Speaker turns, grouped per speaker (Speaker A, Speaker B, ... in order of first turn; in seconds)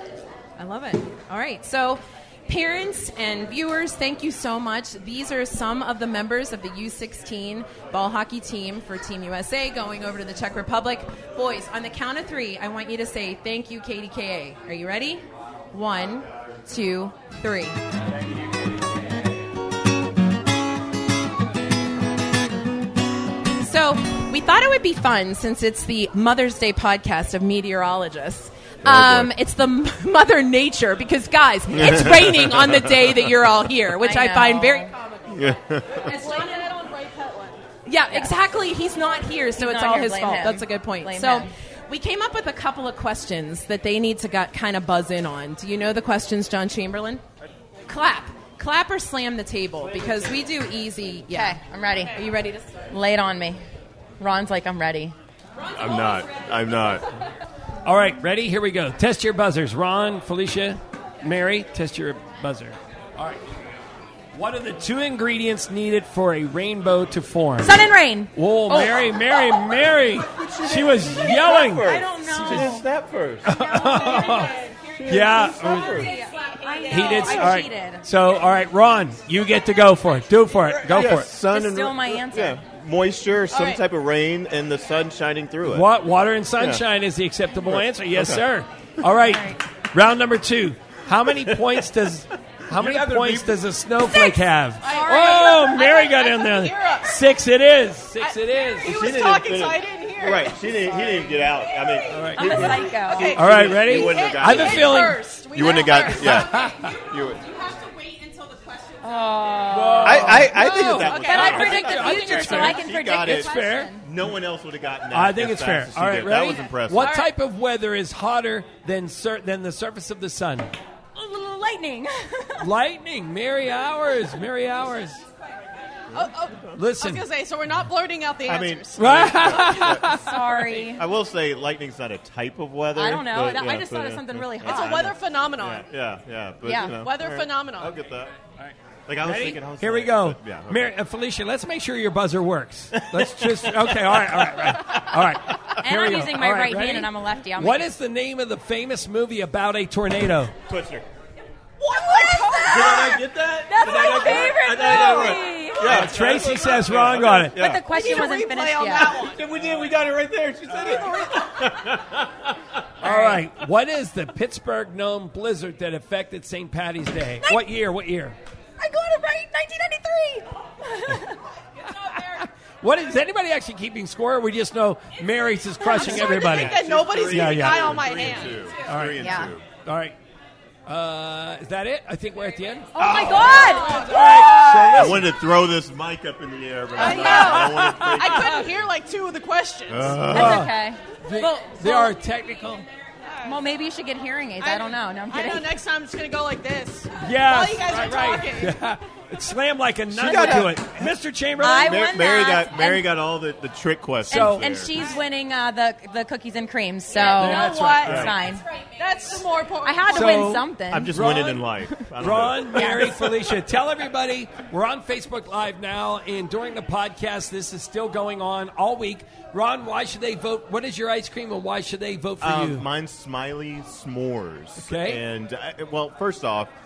Speaker A: 0.6-17.8, 23.4-34.9, 37.9-47.2, 47.9-51.6, 52.1-52.7
Speaker B: 28.8-29.3, 31.7-33.0, 35.3-36.1, 55.7-57.0, 70.3-73.4, 74.9-76.1, 80.6-85.9, 86.6-86.8, 87.6-88.4, 91.4-91.8, 92.7-93.6, 98.8-107.5, 110.0-117.2, 126.1-126.8, 128.4-138.3, 139.1-140.9, 142.9-144.3, 150.7-151.1, 152.6-157.9, 158.9-162.4, 176.2-179.6, 182.9-183.8, 184.4-188.8, 189.9-190.7, 200.1-201.1, 201.7-204.9, 208.0-208.4, 210.9-212.9, 222.4-226.7
Speaker C: 34.0-34.9, 36.1-36.6, 39.5-41.5, 51.3-52.2, 52.9-53.6, 54.2-55.1, 67.6-69.7, 71.4-72.8, 73.5-74.5, 75.2-78.0, 81.0-82.6, 89.2-89.6, 94.9-95.7, 102.3-103.4, 109.0-114.0, 121.2-122.7, 130.0-131.1, 132.9-135.0, 136.6-137.0, 145.8-147.9, 151.8-156.0, 157.5-159.3, 163.0-163.4, 168.8-171.3, 179.2-179.5, 182.9-184.4, 190.3-192.2, 193.4-195.7, 201.6-203.1, 204.3-208.6, 209.8-211.2, 212.7-213.2
Speaker D: 36.1-37.6, 74.2-74.9, 76.0-77.5, 83.5-83.8, 94.1-97.2, 98.2-107.0, 107.5-109.0, 110.6-112.3, 117.0-117.3, 126.1-129.8, 134.6-135.9, 136.9-138.0, 151.9-152.9, 157.8-159.5, 160.7-161.4, 175.8-178.8, 183.4-184.8, 186.9-190.3, 193.2-193.6, 194.6-198.8, 207.1-210.6
Speaker E: 57.8-63.4, 64.3-72.8, 73.4-74.5, 75.1-75.9, 76.9-81.3, 85.6-99.0, 102.1-102.7, 103.3-105.2, 106.2-106.9, 109.7-114.0, 115.1-120.7, 122.6-125.2, 126.8-127.2, 128.9-130.2, 138.6-150.5, 155.8-157.6, 163.0-168.4, 172.8-176.8, 177.3-177.9, 178.8-180.1, 180.9-182.9, 183.8-185.3, 187.6-188.5, 190.3-190.7, 191.2-192.8, 197.2-202.2, 204.3-204.8, 207.1-208.3, 210.1-222.8, 224.8-225.2